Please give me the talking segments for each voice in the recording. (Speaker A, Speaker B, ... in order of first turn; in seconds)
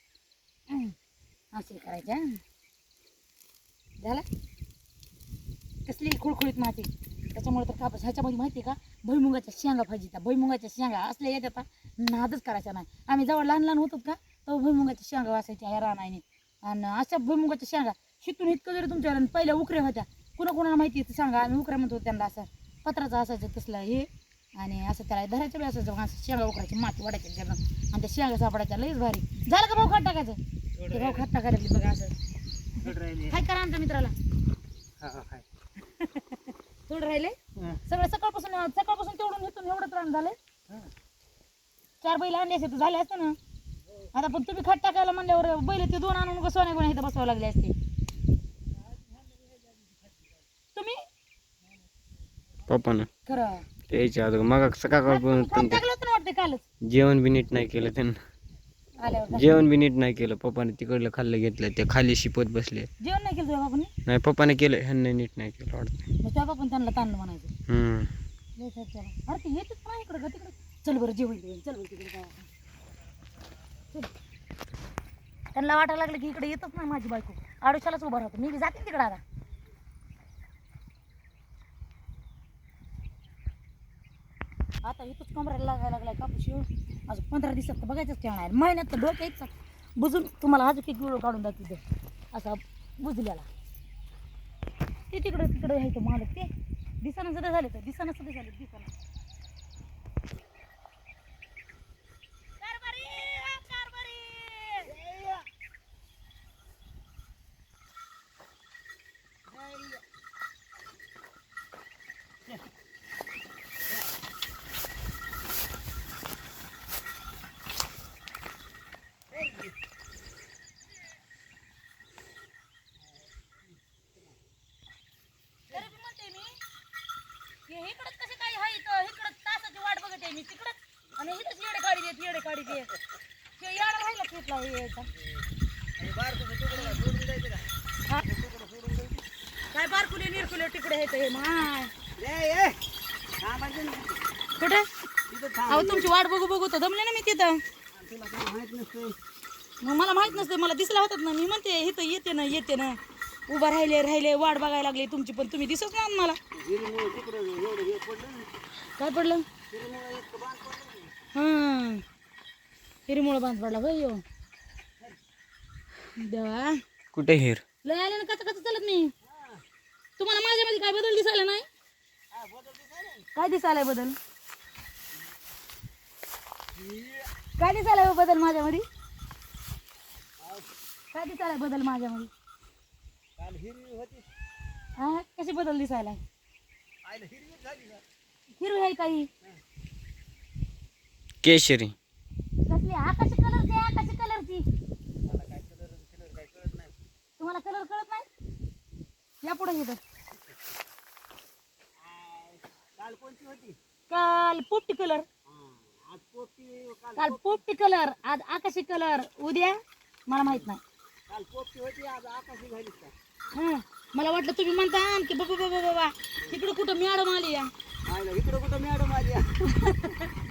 Speaker A: 1.5-2.4, 5.8-30.4, 30.9-32.1, 33.3-34.1, 36.0-40.4, 42.0-43.4, 44.1-47.7, 50.7-51.0, 53.2-53.6, 55.0-56.6, 59.0-59.6, 63.0-63.9, 66.2-67.5, 68.6-72.5, 75.5-79.2, 84.8-91.8, 92.3-93.5, 95.1-96.5, 97.0-98.9, 102.6-104.9, 125.7-126.5, 127.7-132.9, 133.6-135.1, 139.7-141.9, 144.6-144.9, 145.7-147.6, 149.8-156.4, 159.0-159.4, 161.3-162.0, 163.1-164.2, 166.2-166.8, 167.8-169.1, 170.2-171.7, 173.3-174.2, 177.6-178.8, 181.1-182.3, 185.0-186.2, 188.6-189.3, 192.7-194.6, 197.4-198.3, 199.4-200.0, 204.1-205.2, 207.2-210.8, 213.5-217.7, 219.8-220.2
Speaker B: 30.8-31.2, 32.8-33.4, 35.0-35.4, 104.8-105.4, 109.5-110.0, 119.3-119.7, 136.0-139.2, 142.2-142.8, 143.4-144.2, 145.3-146.1, 147.9-149.2, 156.5-158.5, 159.7-161.1, 169.2-169.6, 172.3-173.3, 176.8-177.3, 180.4-180.7, 183.4-184.3, 187.0-188.0, 195.2-196.9, 202.0-203.8, 205.5-207.6, 211.3-213.1, 218.1-219.6
Speaker C: 52.7-53.1, 53.9-55.8, 56.8-58.2, 59.3-62.9, 64.0-66.0, 67.7-68.1, 167.1-167.6, 191.4-191.9